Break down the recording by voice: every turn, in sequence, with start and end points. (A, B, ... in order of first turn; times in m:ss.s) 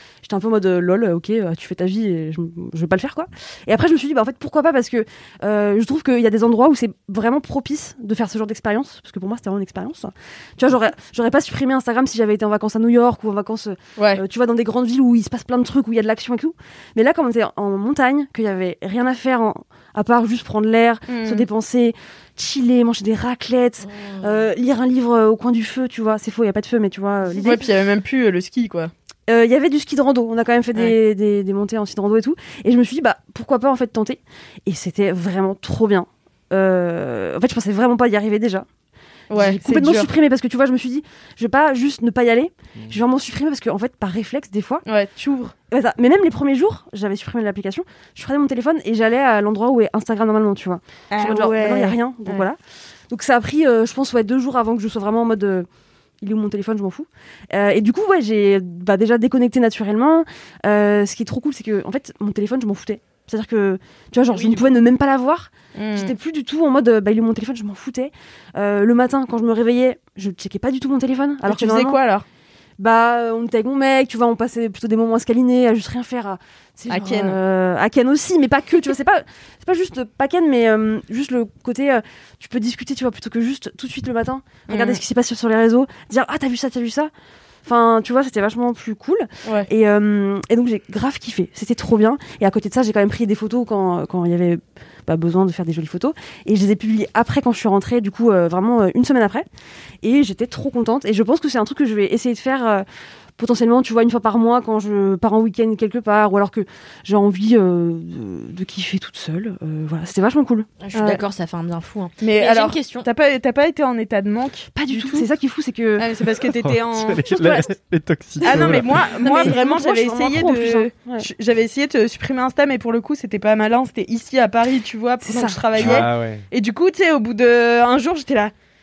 0:00.2-0:27.6 A
0:14.0-0:14.2 B
0:21.1-0:21.5 B
0:23.9-0:24.4 C
0:27.3-0:28.9 B
0:29.3-0:38.7 A
0:39.3-0:40.1 B
0:39.3-0:44.8 A
0:44.9-0:45.5 B
0:45.7-0:52.6 A
0:51.1-0:52.5 B
0:53.1-0:55.7 A
0:56.2-1:12.0 A
1:04.3-1:04.8 B
1:05.8-1:06.1 B
1:11.5-1:12.2 B
1:12.8-1:27.1 A
1:16.9-1:17.4 B
1:24.7-1:25.0 B
1:27.6-1:39.5 A
1:40.0-1:42.8 A
1:43.4-1:51.2 A
1:50.8-1:53.1 C
1:52.2-1:55.3 B
1:54.8-1:56.1 A
1:56.0-1:57.7 B
1:56.6-1:59.1 D
1:58.4-2:08.5 B
1:58.4-2:01.3 A
2:05.2-2:06.0 A
2:05.8-2:06.4 D